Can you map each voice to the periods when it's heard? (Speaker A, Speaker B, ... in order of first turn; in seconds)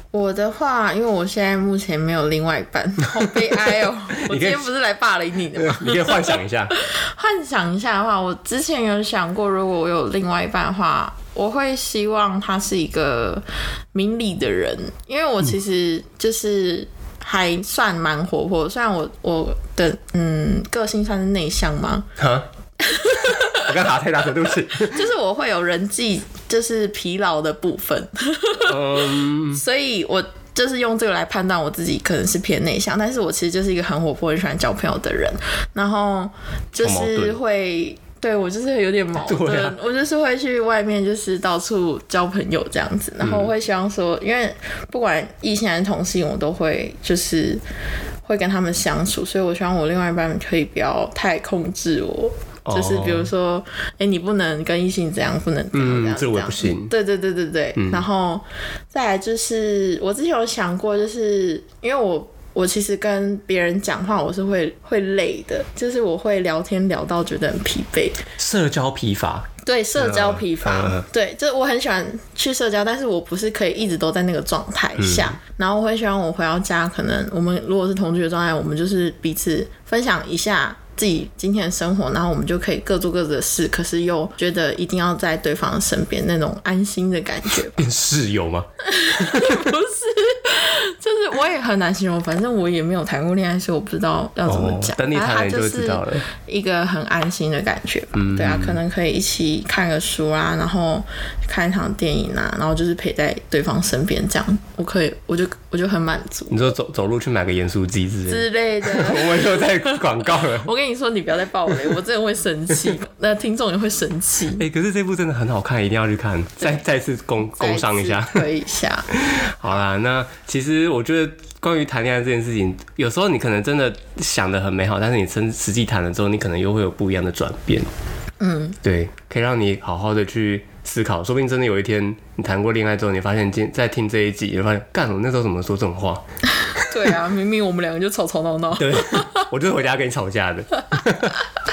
Speaker A: 0.1-22.1, 22.8-23.7, 24.9-47.6, 48.2-68.2, 69.6-87.8, 88.8-106.6, 108.3-114.6, 117.6-119.1, 128.4-128.8, 136.9-139.4
Speaker B: 4.2-4.7, 5.5-6.7, 22.2-22.4, 23.2-25.0, 28.5-29.6, 36.8-37.4, 39.2-39.8, 43.2-43.5, 52.6-53.3, 55.7-56.9, 57.8-58.0, 68.4-71.0, 75.0-75.3, 87.8-88.7, 89.3-89.6, 94.5-96.2, 98.1-98.8, 106.5-110.7, 114.6-118.4, 119.1-127.9, 128.8-136.2, 138.8-141.3